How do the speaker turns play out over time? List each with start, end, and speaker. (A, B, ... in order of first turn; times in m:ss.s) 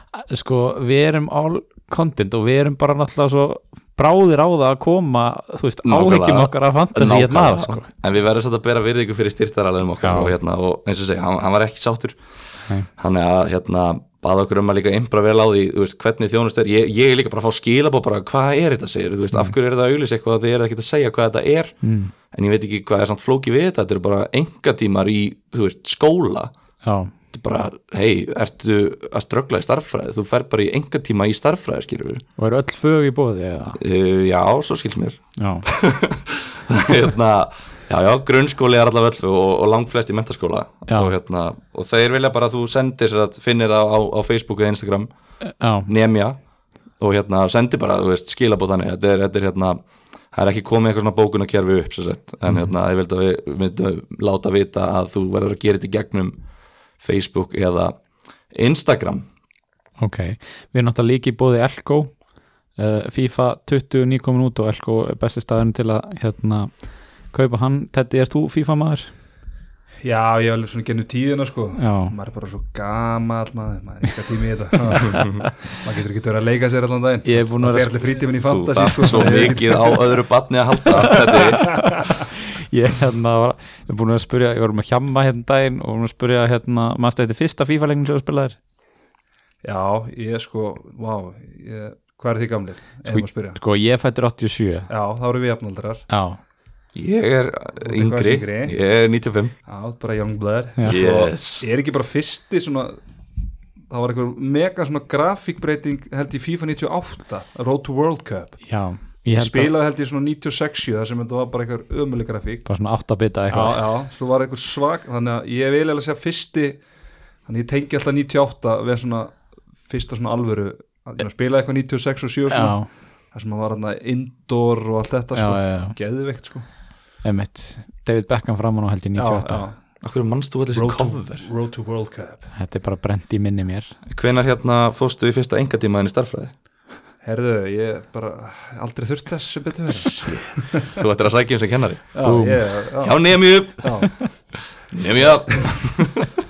0:00.1-0:07.9 A
0:05.8-0:26.5 B
0:10.0-0:10.3 A
0:21.8-0:22.1 A
0:26.8-0:27.1 A
0:27.3-0:32.2 B
0:32.4-0:33.8 A
0:33.8-0:45.1 B
0:35.4-0:35.7 A
0:45.4-0:45.9 A
0:45.8-0:56.4 B
0:52.4-0:52.7 A
0:57.0-0:59.2 B
1:00.0-1:09.1 A
1:10.0-1:20.0 C
1:11.8-1:12.1 A
1:15.1-1:15.4 B
1:17.2-1:18.2 A
1:18.5-1:22.0 B
1:19.2-1:19.4 A
1:22.6-1:28.6 A
1:29.6-1:33.6 C
1:33.0-1:34.9 A
1:34.9-1:36.1 C
1:36.1-1:36.4 A
1:36.9-1:39.5 B
1:37.8-1:38.8 C
1:39.6-1:43.0 C
1:40.8-1:41.6 B
1:43.9-1:56.9 C
1:48.6-1:49.7 A
1:52.6-1:53.8 A
1:57.4-2:06.7 C
2:02.5-2:02.9 A
2:05.3-2:05.9 A
2:07.2-2:09.7 A
2:09.2-2:10.1 C
2:10.0-2:11.4 B
2:10.7-2:12.5 C
2:12.5-2:13.9 A
2:14.1-2:16.5 B
2:17.2-2:21.0 C
2:20.0-2:22.2 B
2:22.1-2:24.7 C
2:22.2-2:22.7 A
2:23.0-2:24.4 B
2:24.9-2:26.3 B
2:25.2-2:25.6 C